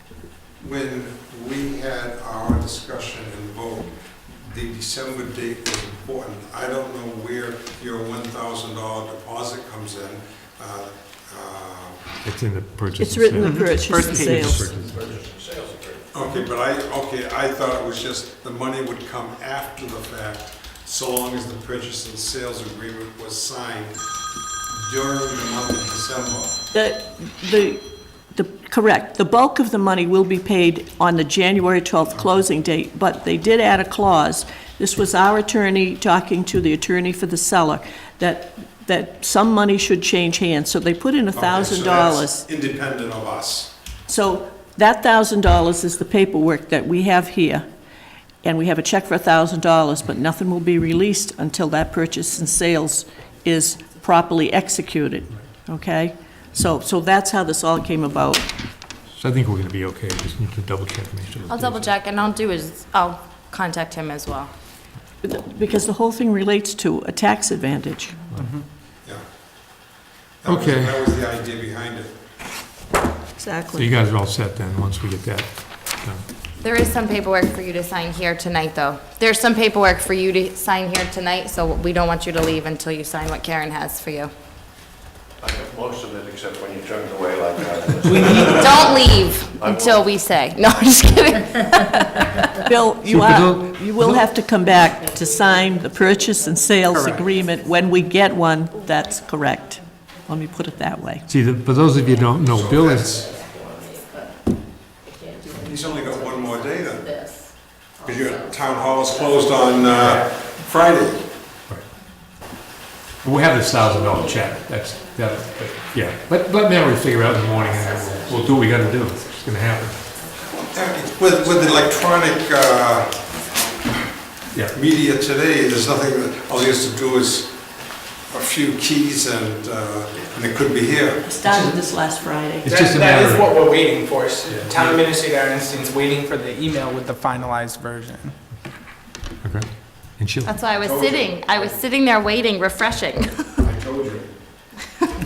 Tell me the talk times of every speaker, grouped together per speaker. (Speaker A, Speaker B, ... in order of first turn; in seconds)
Speaker A: 0.6-12.0, 16.1-24.1, 24.7-26.6, 41.3-43.7, 70.4-72.2, 102.4-103.4, 105.5-107.2, 107.9-111.3, 120.5-123.2, 124.7-131.2, 140.8-141.8, 143.6-144.3
Speaker B: 12.2-15.2, 59.1-61.8, 70.5-71.2, 73.7-76.2, 93.0-94.3, 101.3-103.1, 113.2-120.2, 124.5-124.8, 131.4-131.8, 132.6-133.8, 134.4-135.0, 139.4-140.6
Speaker C: 13.0-14.7, 26.7-27.8, 28.3-42.4, 44.1-47.6, 48.4-58.5, 65.2-68.3, 73.4-73.9, 92.6-101.3, 131.2-132.7
Speaker D: 13.4-14.5, 94.4-100.9, 101.9-110.4, 113.5-124.0, 132.7-138.3
Speaker E: 14.7-16.3, 85.4-90.2
Speaker F: 61.5-64.5, 76.6-84.3, 88.5-92.5, 140.4-143.7